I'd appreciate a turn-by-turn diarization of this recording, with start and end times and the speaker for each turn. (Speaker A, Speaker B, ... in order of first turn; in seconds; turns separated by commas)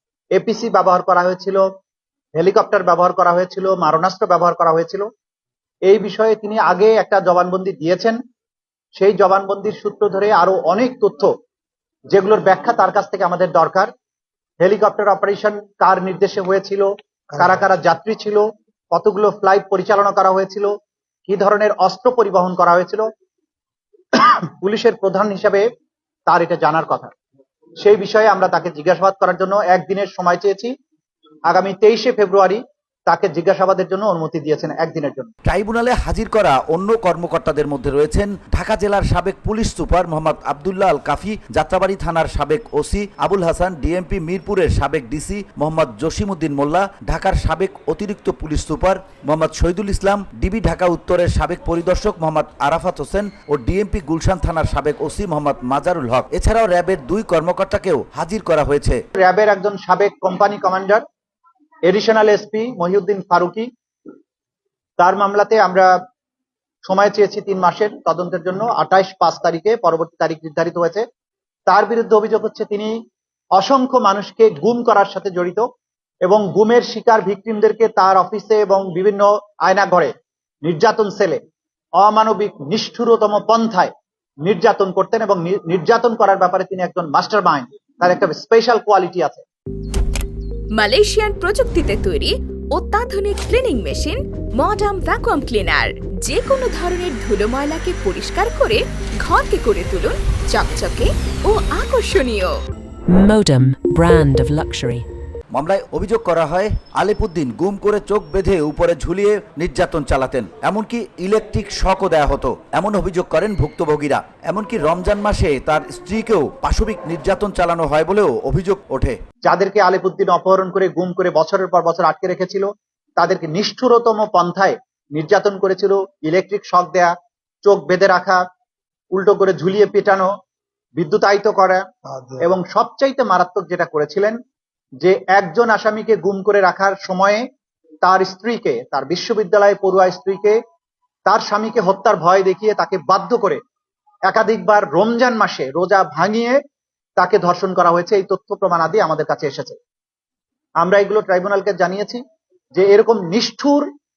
Speaker A: 0.3-1.6, Speaker A: 2.4-5.1, Speaker A: 5.9-8.2, Speaker A: 8.9-11.3, Speaker A: 12.1-13.9, Speaker A: 14.6-20.7, Speaker A: 21.3-23.1, Speaker A: 24.1-25.7, Speaker A: 26.3-27.1, Speaker A: 27.8-30.7, Speaker A: 31.5-35.3, Speaker B: 35.5-59.0, Speaker A: 59.2-61.0, Speaker A: 61.9-63.7, Speaker A: 65.0-65.9, Speaker A: 66.8-71.0, Speaker A: 71.7-73.0, Speaker A: 73.5-75.6, Speaker A: 76.2-80.1, Speaker A: 80.6-81.4, Speaker A: 82.0-83.9, Speaker A: 84.5-89.4, Speaker C: 90.8-102.6, Speaker D: 103.1-105.1, Speaker B: 105.5-119.2, Speaker A: 119.5-127.1, Speaker A: 127.7-128.4, Speaker A: 129.1-130.3, Speaker A: 131.0-131.8, Speaker A: 132.4-134.4, Speaker A: 135.0-137.4, Speaker A: 138.0-140.6, Speaker A: 141.3-143.6, Speaker A: 144.3-146.6, Speaker A: 147.2-149.8, Speaker A: 150.8-152.2, Speaker A: 152.8-153.9